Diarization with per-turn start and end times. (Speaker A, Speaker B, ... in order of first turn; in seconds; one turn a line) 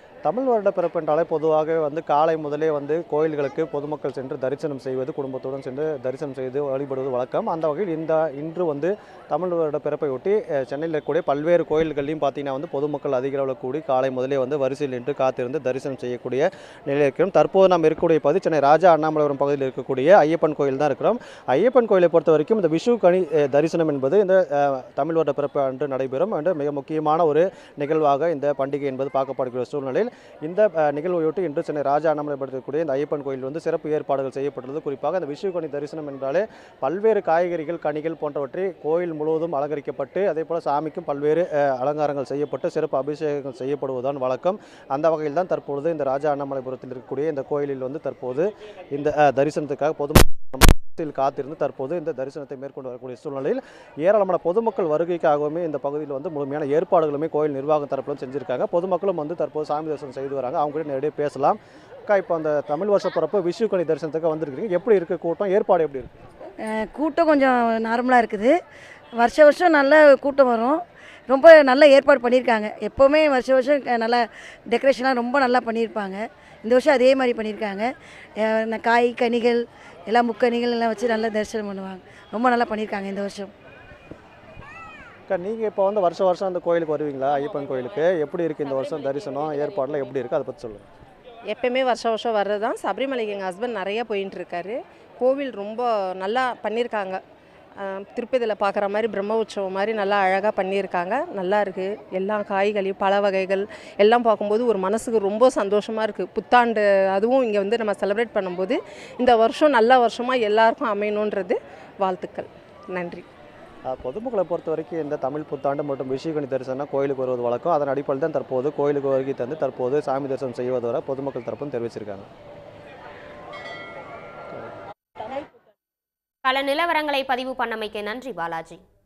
Speaker A: 0.3-66.1
Speaker B: 66.8-68.5
Speaker B: 69.2-70.8
Speaker B: 71.3-77.9
Speaker B: 78.4-83.5
Speaker A: 85.3-90.9
Speaker C: 91.5-97.2
Speaker C: 97.8-113.3
Speaker A: 113.9-122.3
Speaker D: 126.4-128.8